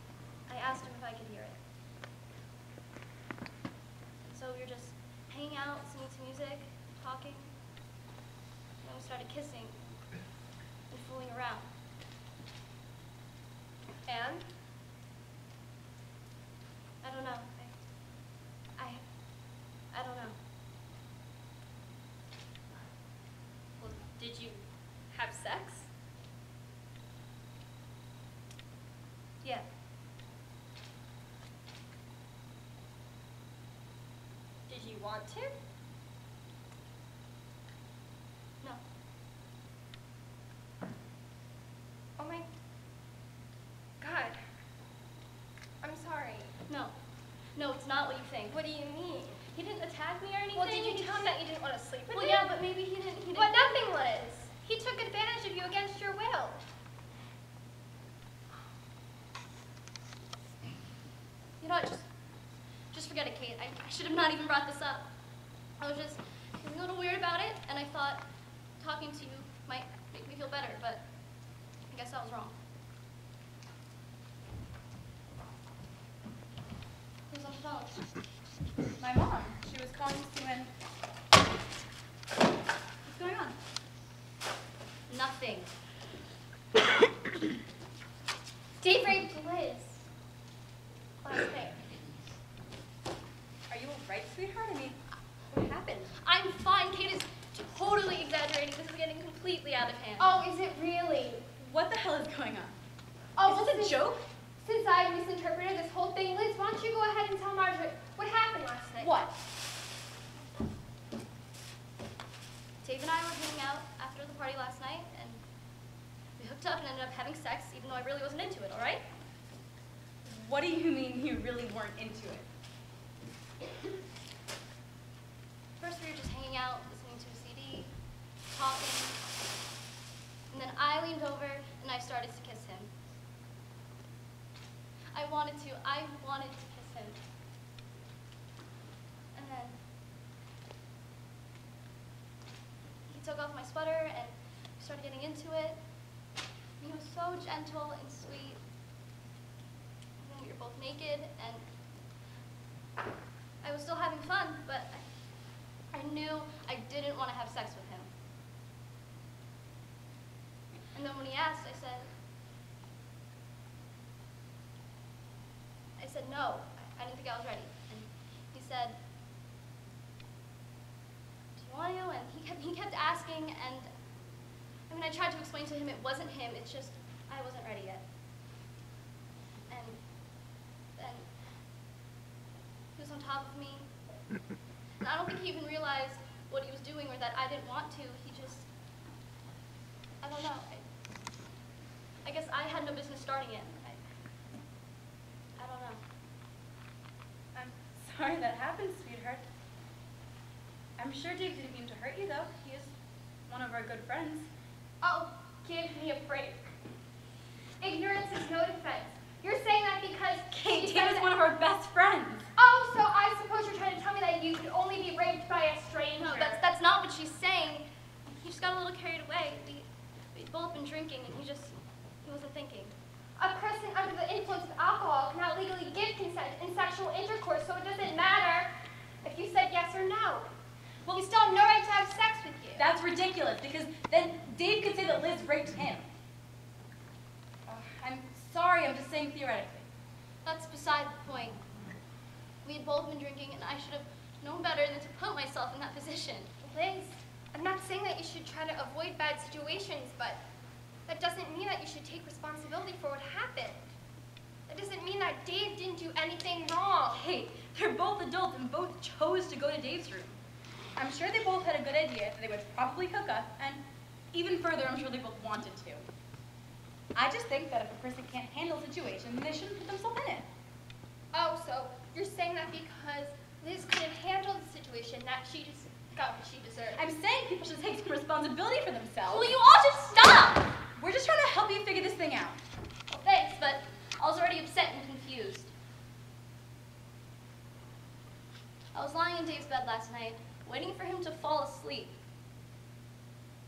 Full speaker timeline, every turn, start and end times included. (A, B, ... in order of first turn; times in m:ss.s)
0:00.5-0:01.6 A
0:04.2-0:07.5 A
0:08.8-0:10.0 A
0:10.9-0:11.7 A
0:14.0-0:14.4 B
0:17.0-0:17.8 A
0:18.8-0:19.0 A
0:19.9-0:20.4 A
0:23.8-0:25.9 B
0:34.7-0:35.5 B
0:42.2-0:42.4 B
0:44.0-0:44.4 B
0:45.8-0:46.5 B
0:46.7-0:46.9 A
0:47.5-0:48.6 A
0:48.5-0:49.6 B
0:49.6-0:51.3 A
0:50.5-0:52.5 B
0:52.1-0:53.8 A
0:53.3-0:56.6 B
1:01.6-1:02.1 A
1:02.9-1:05.1 A
1:05.8-1:08.2 A
1:08.8-1:11.0 A
1:11.9-1:12.5 A
1:17.3-1:18.0 A
1:19.0-1:20.7 C
1:23.0-1:23.6 C
1:25.1-1:25.7 A
1:28.8-1:30.0 B
1:31.2-1:31.8 B
1:33.7-1:35.0 C
1:35.5-1:36.1 C
1:36.2-1:40.4 A
1:40.2-1:41.4 B
1:41.6-1:42.8 C
1:43.4-1:44.0 B
1:43.4-1:44.2 C
1:44.6-1:49.1 B
1:49.0-1:49.3 C
1:52.8-1:55.4 A
1:56.4-1:59.0 A
2:00.2-2:02.5 C
2:05.8-2:07.9 A
2:08.5-2:09.2 A
2:10.5-2:12.9 A
2:15.1-2:17.2 A
2:19.3-2:19.8 A
2:23.1-2:25.8 A
2:26.8-2:28.6 A
2:30.2-2:31.6 A
2:33.6-2:35.0 A
2:35.9-2:38.1 A
2:40.9-2:42.1 A
2:46.0-2:49.0 A
2:51.6-2:53.9 A
2:54.9-2:58.0 A
2:59.7-3:00.0 A
3:01.0-3:01.3 A
3:02.9-3:03.9 A
3:05.0-3:08.7 A
3:10.2-3:10.9 A
3:12.2-3:14.0 A
3:15.6-3:16.0 A
3:17.5-3:19.4 C
3:21.0-3:22.9 C
3:23.5-3:24.5 C
3:25.0-3:26.6 B
3:27.8-3:31.3 B
3:30.5-3:32.5 C
3:32.6-3:36.6 B
3:36.2-3:42.9 A
3:43.4-3:48.7 B
3:49.2-3:50.5 B
3:51.1-3:52.8 B
3:52.7-3:56.1 C
3:57.7-3:59.8 C
4:00.4-4:01.6 A
4:02.6-4:06.5 A
4:06.6-4:10.4 B
4:11.1-4:13.9 B
4:14.7-4:17.2 B
4:17.1-4:20.4 C
4:21.0-4:26.0 C
4:27.1-4:30.5 C
4:31.3-4:37.0 B
4:36.9-4:39.5 C
4:39.2-4:40.7 A
4:41.0-4:42.6 C
4:43.1-4:45.7 A
4:48.9-4:52.2 A